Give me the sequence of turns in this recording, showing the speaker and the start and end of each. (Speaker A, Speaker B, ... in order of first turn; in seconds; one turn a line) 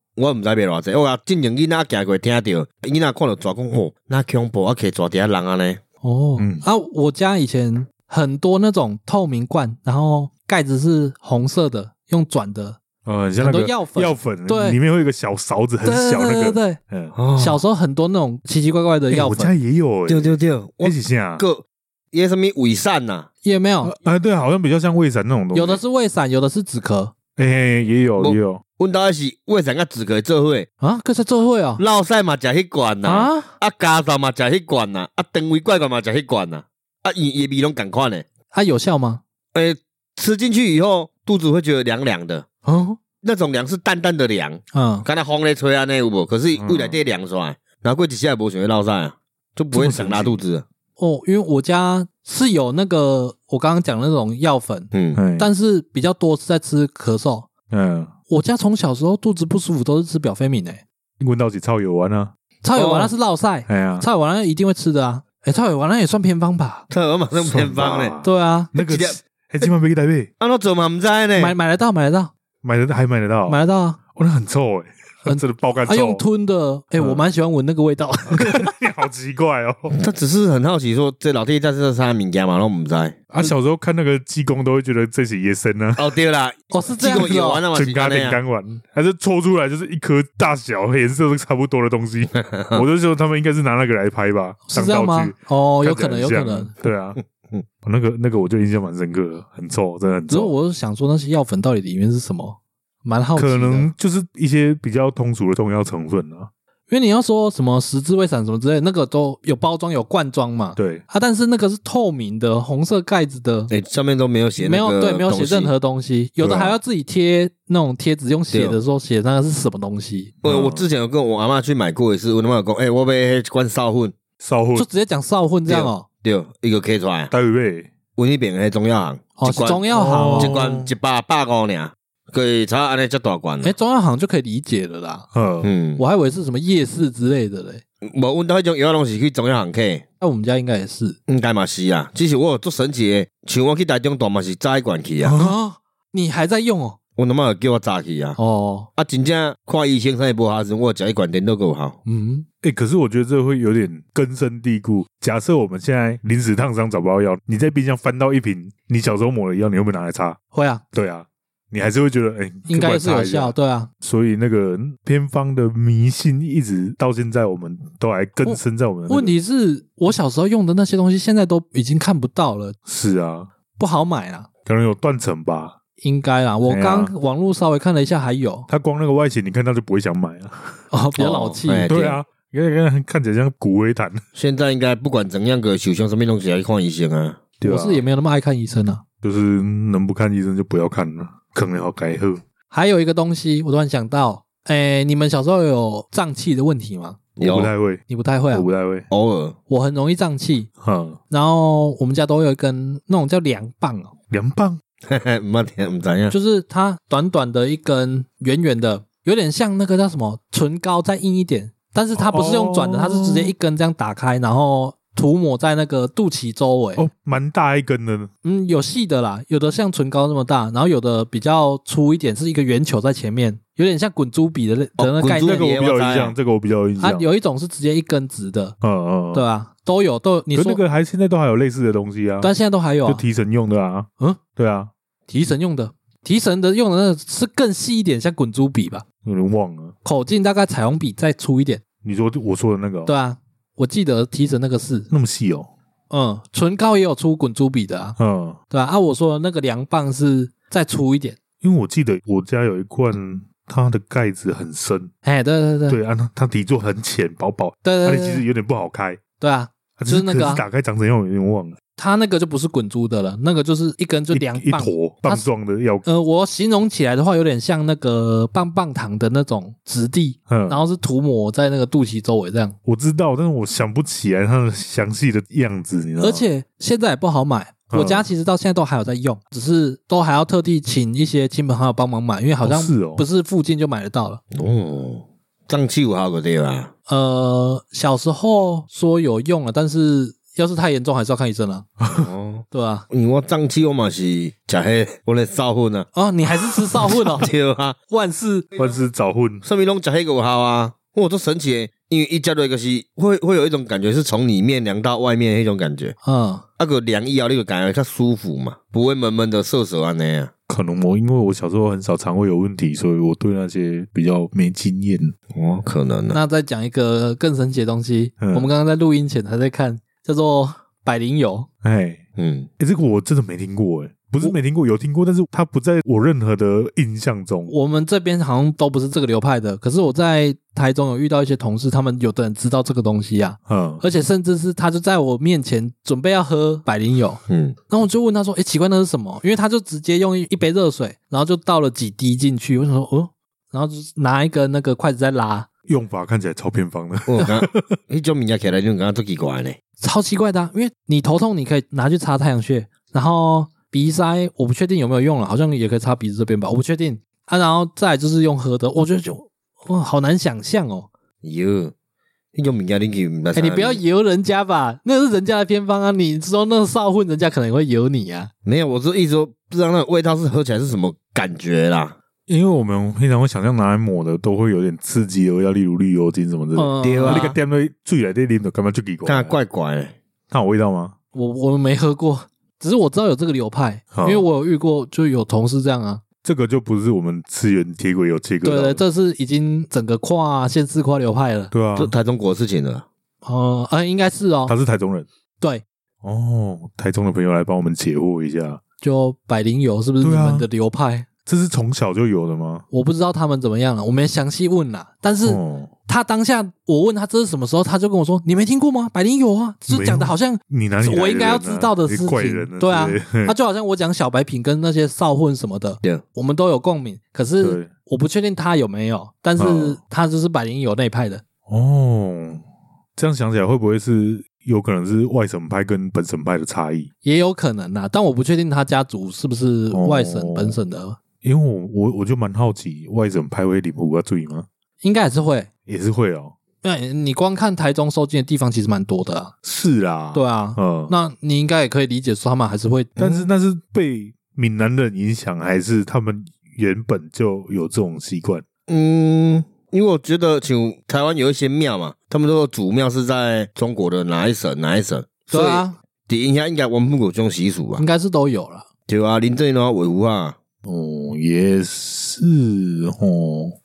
Speaker A: 0.2-5.8
Speaker B: 6.0-12.8
Speaker C: 6.4-6.7
Speaker C: 13.1-17.2
Speaker B: 13.4-14.8
Speaker B: 15.8-16.8
Speaker A: 17.1-17.6
Speaker B: 17.4-19.5
Speaker C: 19.1-21.4
Speaker A: 20.1-23.3
Speaker B: 23.4-23.9
Speaker C: 23.8-25.8
Speaker B: 25.5-27.1
Speaker C: 27.4-28.6
Speaker A: 28.2-30.7
Speaker B: 30.8-31.8
Speaker A: 31.8-38.3
Speaker B: 33.0-33.5
Speaker B: 38.5-39.2
Speaker A: 39.5-42.5
Speaker B: 42.6-43.0
Speaker A: 43.2-50.6
Speaker B: 44.7-45.1
Speaker C: 46.6-47.0
Speaker C: 49.7-50.4
Speaker B: 51.0-57.5
Speaker A: 54.9-55.2
Speaker C: 55.1-55.5
Speaker C: 57.7-58.1
Speaker B: 58.3-60.8
Speaker C: 61.2-62.3
Speaker B: 62.6-66.8
Speaker A: 62.8-63.1
Speaker C: 63.7-64.1
Speaker A: 66.9-68.2
Speaker C: 67.4-70.3
Speaker B: 68.2-68.7
Speaker A: 68.8-69.2
Speaker A: 70.4-71.5
Speaker B: 71.4-72.3
Speaker C: 72.6-73.6
Speaker B: 73.5-74.0
Speaker C: 74.2-76.2
Speaker B: 75.2-78.7
Speaker C: 77.0-77.2
Speaker C: 78.3-80.0
Speaker A: 79.9-83.2
Speaker C: 83.3-86.1
Speaker A: 86.0-88.4
Speaker B: 86.7-87.6
Speaker C: 87.7-97.2
Speaker A: 92.4-92.8
Speaker B: 94.7-96.7
Speaker A: 97.4-97.6
Speaker C: 97.8-100.5
Speaker B: 100.3-103.9
Speaker C: 103.4-106.5
Speaker B: 106.9-113.7
Speaker C: 110.8-111.0
Speaker A: 113.7-115.7
Speaker B: 114.6-120.3
Speaker C: 116.4-116.8
Speaker A: 118.5-118.8
Speaker A: 120.4-124.2
Speaker C: 120.4-120.9
Speaker C: 124.4-124.9
Speaker B: 124.8-126.1
Speaker A: 125.7-127.3
Speaker C: 127.3-127.9
Speaker A: 128.2-133.7
Speaker B: 129.4-130.5
Speaker C: 129.9-130.9
Speaker B: 133.6-135.3
Speaker C: 135.3-135.7
Speaker A: 135.6-136.0
Speaker B: 136.0-137.8
Speaker A: 138.0-140.0
Speaker B: 140.2-141.2
Speaker A: 141.3-145.3
Speaker C: 145.2-145.6
Speaker B: 145.4-147.0
Speaker A: 147.2-148.4
Speaker B: 148.4-148.9
Speaker A: 149.0-152.0
Speaker B: 152.1-152.5
Speaker C: 152.6-160.4
Speaker B: 160.5-160.8
Speaker C: 160.9-169.3
Speaker B: 162.7-163.9
Speaker B: 168.4-172.8
Speaker C: 172.9-173.5
Speaker B: 173.8-174.5
Speaker C: 174.7-175.7
Speaker B: 176.0-178.7
Speaker C: 176.7-177.1
Speaker C: 178.7-180.8
Speaker B: 180.9-181.9
Speaker A: 181.2-182.2
Speaker C: 181.9-184.2
Speaker A: 184.3-187.4
Speaker C: 187.6-188.0
Speaker B: 187.6-189.0
Speaker C: 189.2-192.4
Speaker B: 192.7-197.2
Speaker A: 197.4-197.7
Speaker C: 197.4-199.1
Speaker B: 198.1-198.7
Speaker A: 199.1-199.6
Speaker B: 199.7-200.7
Speaker C: 200.8-201.2
Speaker B: 201.3-204.1
Speaker C: 204.3-204.8
Speaker A: 205.1-206.3
Speaker B: 206.3-217.1
Speaker C: 212.2-213.5
Speaker C: 217.0-218.3
Speaker B: 218.4-225.6
Speaker A: 225.0-226.4
Speaker C: 225.4-227.3
Speaker B: 227.0-228.8
Speaker C: 228.8-229.4
Speaker B: 229.3-230.8
Speaker C: 230.5-232.5
Speaker B: 232.4-233.2
Speaker C: 233.1-234.9
Speaker B: 235.3-239.1
Speaker C: 239.2-239.9
Speaker B: 240.0-241.8
Speaker C: 242.0-243.1
Speaker B: 243.1-245.1
Speaker C: 245.1-245.7
Speaker B: 246.1-248.2
Speaker C: 248.2-248.6
Speaker B: 248.7-251.4
Speaker C: 251.6-255.1
Speaker B: 255.2-256.0
Speaker C: 255.9-259.2
Speaker B: 257.8-258.4
Speaker B: 259.4-260.6
Speaker C: 260.0-261.8
Speaker B: 261.9-265.5
Speaker C: 264.3-266.1
Speaker B: 266.1-272.8
Speaker C: 270.5-270.8
Speaker C: 272.9-276.4
Speaker B: 276.2-284.4
Speaker C: 277.9-278.3
Speaker C: 282.6-283.2
Speaker A: 284.5-286.9
Speaker B: 287.1-291.9
Speaker A: 292.1-296.1
Speaker B: 292.7-293.1
Speaker B: 296.1-297.5
Speaker A: 297.1-298.0
Speaker B: 298.1-298.7
Speaker C: 298.8-299.6
Speaker A: 299.6-306.1
Speaker B: 306.2-306.6
Speaker A: 306.8-310.5
Speaker C: 310.7-315.4
Speaker A: 315.5-316.4
Speaker B: 316.3-321.7
Speaker C: 318.4-318.7
Speaker C: 321.8-322.2
Speaker A: 322.4-322.7
Speaker C: 322.8-327.7
Speaker B: 327.7-345.7
Speaker C: 333.7-334.0
Speaker A: 337.5-337.8
Speaker C: 345.9-347.9
Speaker A: 347.3-349.8
Speaker B: 350.0-361.1
Speaker A: 361.4-361.9
Speaker A: 362.5-364.0
Speaker B: 363.5-368.5
Speaker A: 368.6-372.2
Speaker C: 372.5-379.6
Speaker B: 376.8-377.5
Speaker A: 377.0-377.6
Speaker A: 379.2-380.1
Speaker C: 380.5-381.1
Speaker B: 381.3-386.2
Speaker C: 384.1-384.4
Speaker C: 386.4-389.0
Speaker B: 388.6-391.7
Speaker C: 391.7-392.1
Speaker A: 392.0-393.1
Speaker B: 393.4-394.8
Speaker C: 394.7-395.3
Speaker C: 396.2-398.8
Speaker B: 399.0-401.3
Speaker C: 400.2-400.7
Speaker C: 401.5-402.9
Speaker B: 402.9-421.4
Speaker C: 405.4-405.9
Speaker C: 409.9-413.6
Speaker C: 417.6-417.9
Speaker C: 419.6-420.0
Speaker C: 421.7-422.6
Speaker C: 423.2-427.1
Speaker B: 427.2-431.2
Speaker C: 429.9-430.8
Speaker C: 431.4-434.7
Speaker B: 435.0-435.7
Speaker C: 435.9-436.6
Speaker B: 436.8-439.5
Speaker C: 439.6-441.1
Speaker B: 440.3-443.1
Speaker A: 443.2-443.5
Speaker C: 443.2-448.6
Speaker A: 448.9-458.0
Speaker B: 455.5-456.0
Speaker B: 458.0-458.9
Speaker A: 459.1-460.6
Speaker C: 460.9-463.8